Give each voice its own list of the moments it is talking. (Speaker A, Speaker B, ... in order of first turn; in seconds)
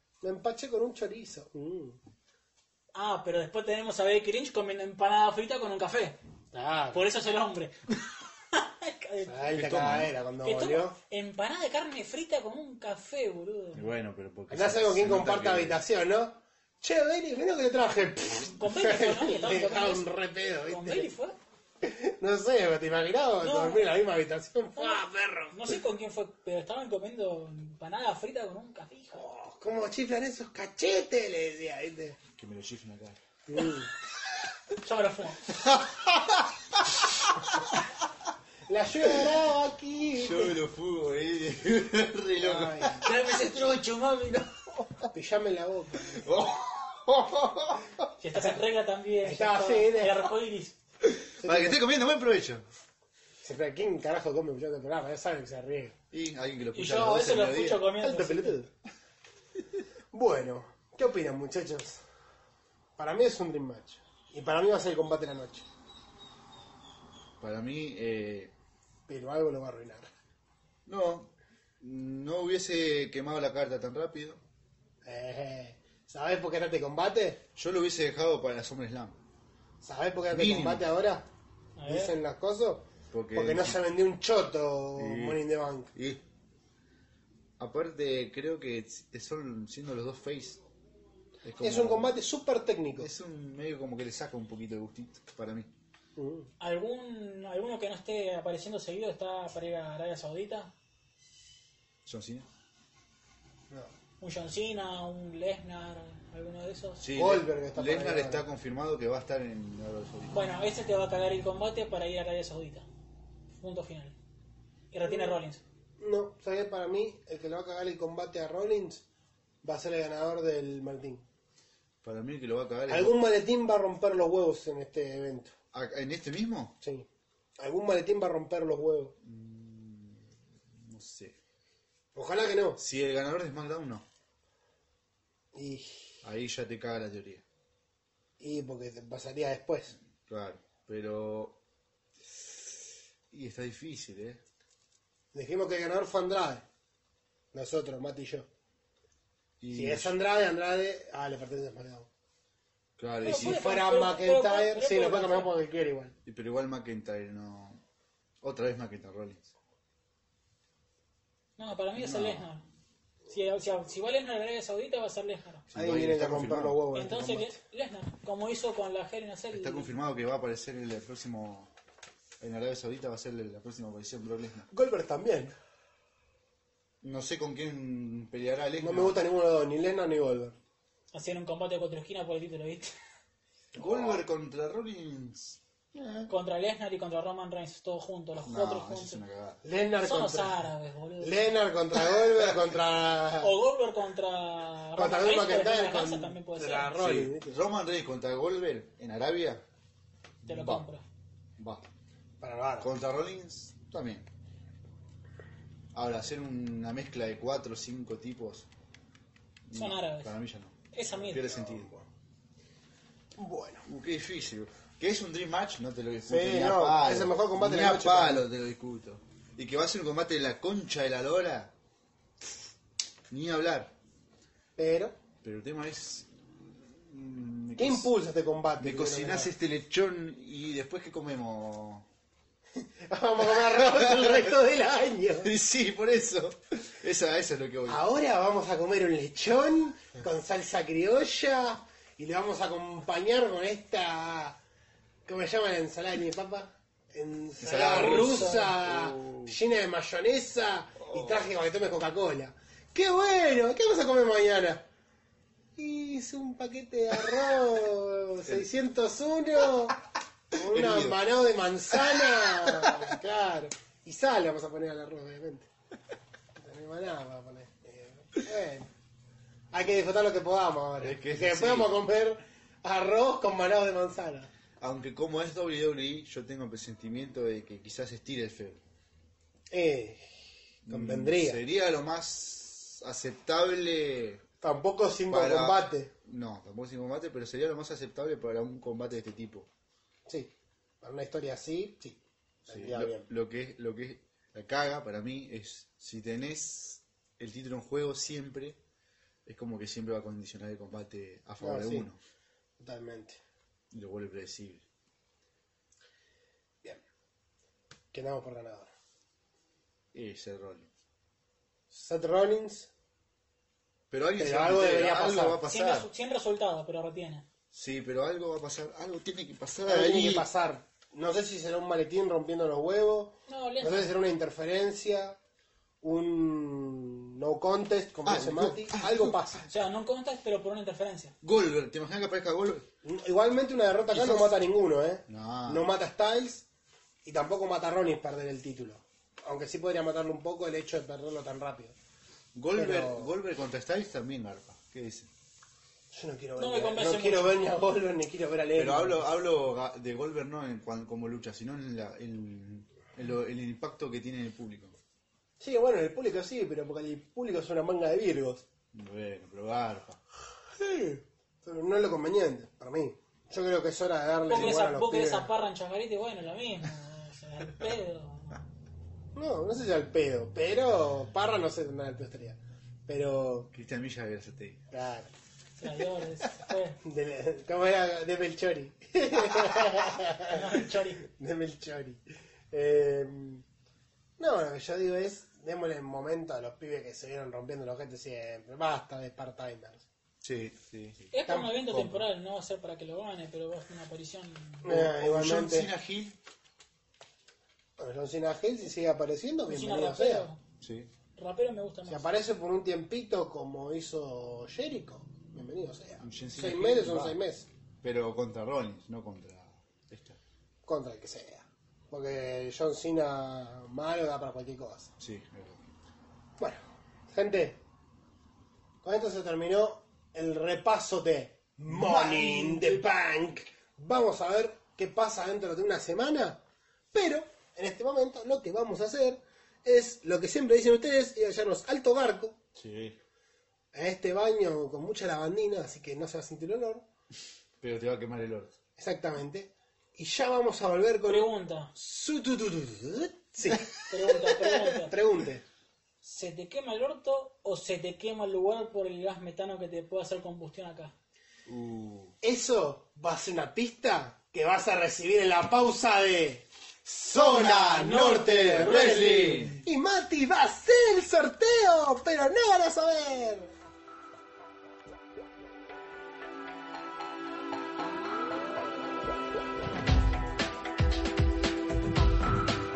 Speaker A: 0.2-2.0, 6.5-7.0, 9.3-11.0, 14.5-21.1, 21.8-25.8, 29.1-32.2, 33.5-33.9, 38.7-40.6, 42.4-43.1, 45.1-46.3, 49.2-50.2, 51.4-51.8, 53.4-56.0, 58.0-58.7, 60.1-62.0, 63.0-65.7, 69.1-70.1, 75.0-77.4, 79.8-81.3, 81.9-85.9, 91.6-93.1, 96.2-96.5, 107.1-108.4, 115.1-115.4, 116.0-119.0, 119.6-121.2, 122.9-125.5, 127.6-129.1, 132.1-132.8, 135.5-136.1, 138.4-139.9, 145.3-146.6, 147.5-148.5, 149.7-152.1, 153.2-156.1, 165.7-167.5, 174.7-175.5, 178.8-180.6, 183.7-184.2, 189.6-190.6, 191.2-193.5, 195.0-197.6, 202.4-202.9, 211.4-212.1, 213.3-213.9, 216.3-218.4, 224.8-225.2, 227.8-229.5, 232.8-235.5, 237.9-244.6, 245.2-254.8, 255.8-260.0, 260.5-265.7, 266.6-268.9, 269.7-274.5, 279.7-280.3, 280.9-281.6, 284.6-286.1, 291.0-293.3, 301.6-302.1, 302.8-303.4, 308.1-308.9, 311.9-312.9, 314.4-315.6, 319.8-325.4, 326.0-329.6, 333.0-336.6, 337.2-341.9, 342.7-343.3, 346.1-349.2, 355.6-358.6, 360.8-365.5, 369.3-373.7, 374.9-375.3, 377.0-383.6, 384.4-390.0, 391.5-392.2, 394.8-395.9, 398.0-400.5, 402.1-407.7, 410.9-415.1, 416.6-417.8, 419.0-426.6, 427.1-432.6, 433.9-437.0, 439.0-444.0, 444.8-445.6, 452.4-463.7
Speaker B: 2.9-6.2, 6.9-9.5, 10.4-13.9, 18.5-20.1, 20.7-21.4, 23.4-23.9, 24.8-29.2, 34.8-35.5, 43.0-44.6, 48.2-50.8, 56.7-58.6, 81.8-82.1, 96.6-100.7, 104.2-107.0, 110.3-112.9, 113.5-114.2, 114.9-115.6, 153.2-155.5, 161.6-162.6, 163.3-165.7, 166.9-169.9, 181.1-182.9, 186.3-189.2, 190.0-191.5, 193.4-196.9, 200.5-201.0, 209.7-210.3, 210.9-211.5, 247.7-248.7, 315.7-317.5, 323.5-324.1, 329.7-331.3, 346.6-347.6, 364.5-368.6, 375.8-377.0, 380.4-381.3, 391.3-394.9, 399.6-400.6, 401.4-402.3, 441.3-441.9, 444.1-445.1, 446.2-451.1, 458.1-459.8
Speaker C: 9.5-10.1, 13.7-15.8, 32.3-33.2, 35.5-38.1, 40.1-43.1, 46.0-48.0, 51.0-52.6, 56.1-57.8, 67.4-68.5, 70.8-74.4, 77.5-79.2, 80.3-80.9, 83.1-83.8, 85.0-85.4, 85.9-86.2, 87.6-90.6, 91.4-92.1, 93.0-95.7, 102.0-102.5, 107.0-110.5, 122.0-123.2, 125.7-126.8, 129.2-131.3, 132.8-134.0, 136.2-137.4, 140.2-141.6, 143.3-144.4, 149.6-150.1, 153.0-153.7, 156.2-157.8, 158.4-159.5, 161.9-162.5, 165.7-166.8, 169.5-171.7, 172.4-174.7, 177.0-179.2, 183.7-186.3, 188.4-189.6, 197.0-199.6, 200.4-200.9, 201.6-201.8, 202.8-204.3, 205.9-208.7, 209.7-211.9, 213.8-221.7, 223.3-223.9, 225.4-228.1, 228.8-232.1, 233.5-234.6, 235.4-238.0, 247.6-249.6, 251.0-251.5, 260.5-261.2, 261.9-263.2, 271.0-272.0, 274.8-278.8, 280.9-284.4, 285.3-289.7, 292.7-298.8, 299.4-302.2, 303.9-304.8, 310.1-310.9, 314.1-316.1, 317.7-320.5, 328.2-329.6, 331.4-332.9, 334.1-334.6, 335.3-335.9, 342.5-345.3, 348.8-355.0, 358.9-360.2, 373.7-374.8, 390.4-391.3, 394.9-396.4, 400.8-401.1, 406.2-407.4, 408.0-410.4, 415.2-415.9, 421.9-423.0, 432.8-433.2, 437.8-438.7, 451.7-452.3, 457.3-459.7